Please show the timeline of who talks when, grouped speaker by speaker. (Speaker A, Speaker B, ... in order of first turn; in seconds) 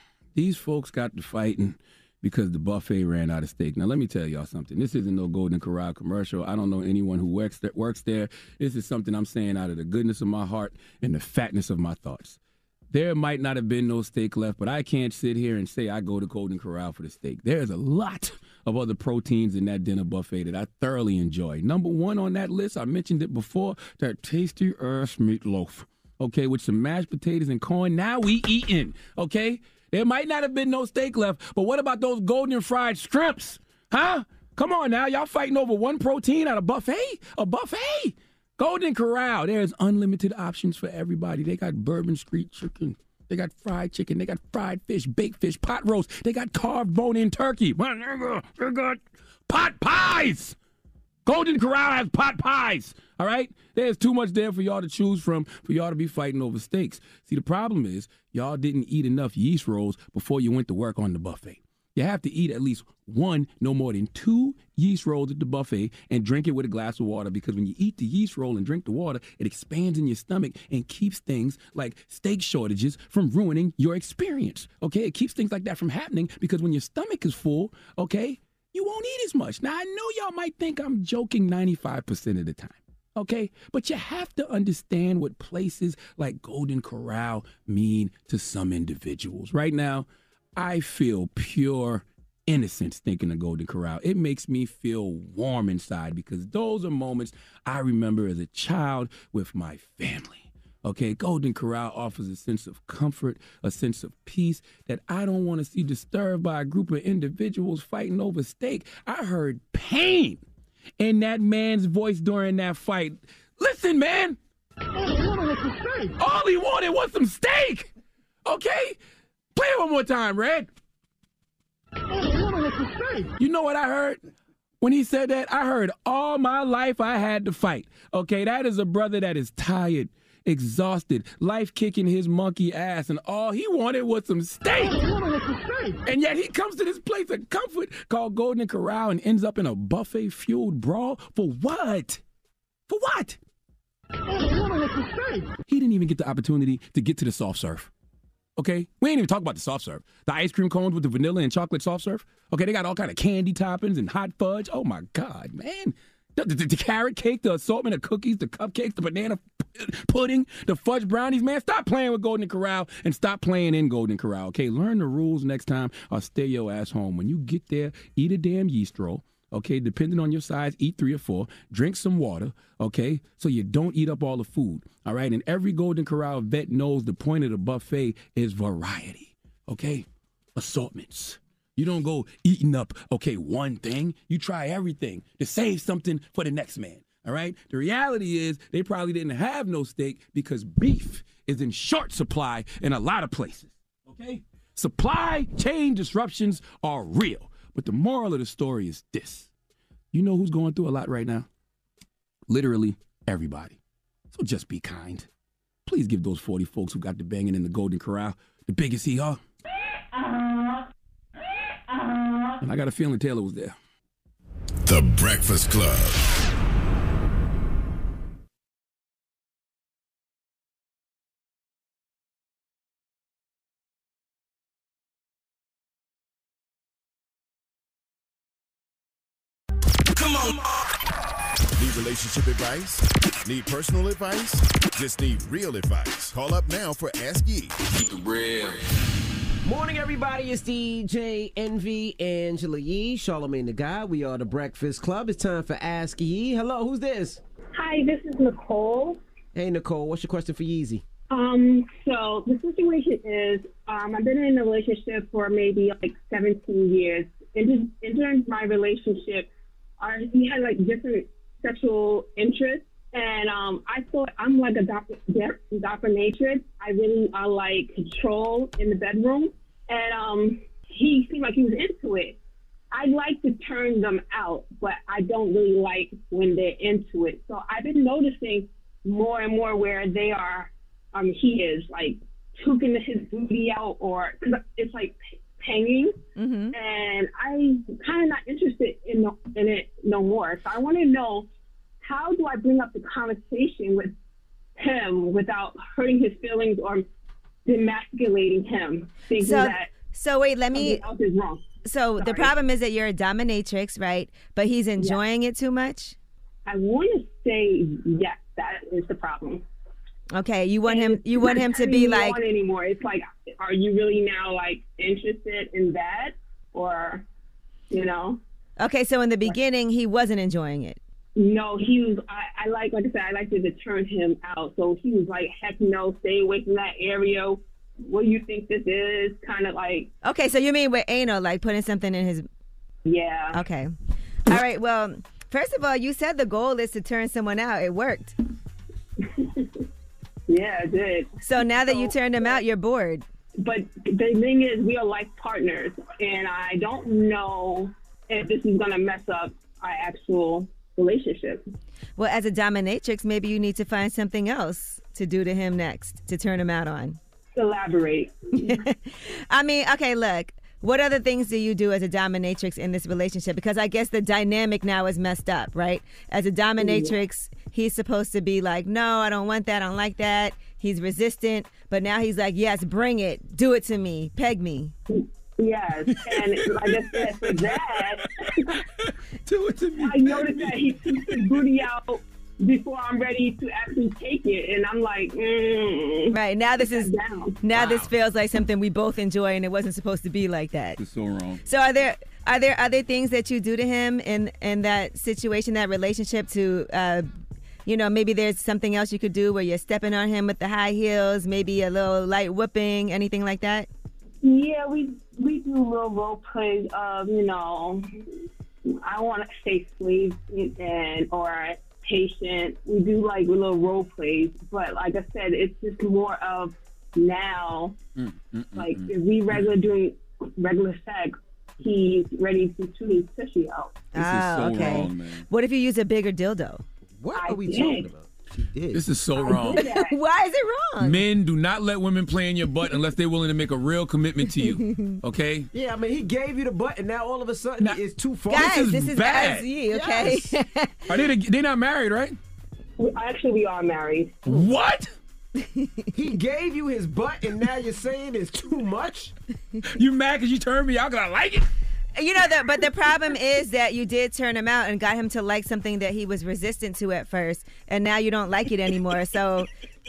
Speaker A: 0.3-12.4, 12.9-50.6, 51.3-110.4, 111.0-114.4, 116.0-117.9, 118.4-119.0, 119.5-120.7, 123.4-124.2, 124.8-135.1, 136.0-142.2, 142.9-143.4, 145.6-147.9, 148.6-180.1, 180.6-199.5, 200.1-201.5, 202.5-203.8, 204.3-205.3, 205.8-209.4, 212.6-213.7, 237.9-238.8, 376.1-377.9, 379.0-381.6, 387.8-388.1, 391.0-391.6, 418.2-419.6, 424.1-425.4, 428.9-429.9, 431.0-435.7, 438.5-439.7, 441.1-442.4, 444.4-445.1, 449.9-451.7
Speaker B: 214.8-216.3, 231.8-237.8
Speaker C: 239.6-247.4, 249.6-251.0, 427.2-429.0, 435.7-438.8, 439.8-440.6, 446.1-449.3
Speaker D: 247.7-249.2, 251.3-259.5, 260.0-272.4, 272.9-286.1, 286.7-291.5, 292.0-294.1, 294.8-297.1, 297.6-299.9, 300.7-301.6, 302.2-302.5, 306.7-309.6, 310.9-317.2, 317.9-318.4, 321.4-330.1, 333.1-333.6, 339.4-339.7, 340.5-342.6, 343.6-351.6, 357.6-358.8, 366.8-367.2, 375.1-378.7, 380.0-387.6, 404.4-408.0, 408.9-418.0, 418.7-424.0, 427.3-428.1, 429.4-430.1, 443.0-444.4
Speaker E: 286.4-286.7, 299.4-301.0, 301.8-306.1, 310.3-312.4, 318.8-321.0, 330.2-332.4, 333.5-333.9, 334.5-338.3, 341.4-343.2, 352.2-357.2, 358.6-374.9, 386.3-387.1, 387.6-391.0, 391.6-397.3, 397.9-403.9, 424.1-426.8, 429.8-431.2, 434.6-435.2, 438.5-441.2, 445.6-446.1, 452.2-459.7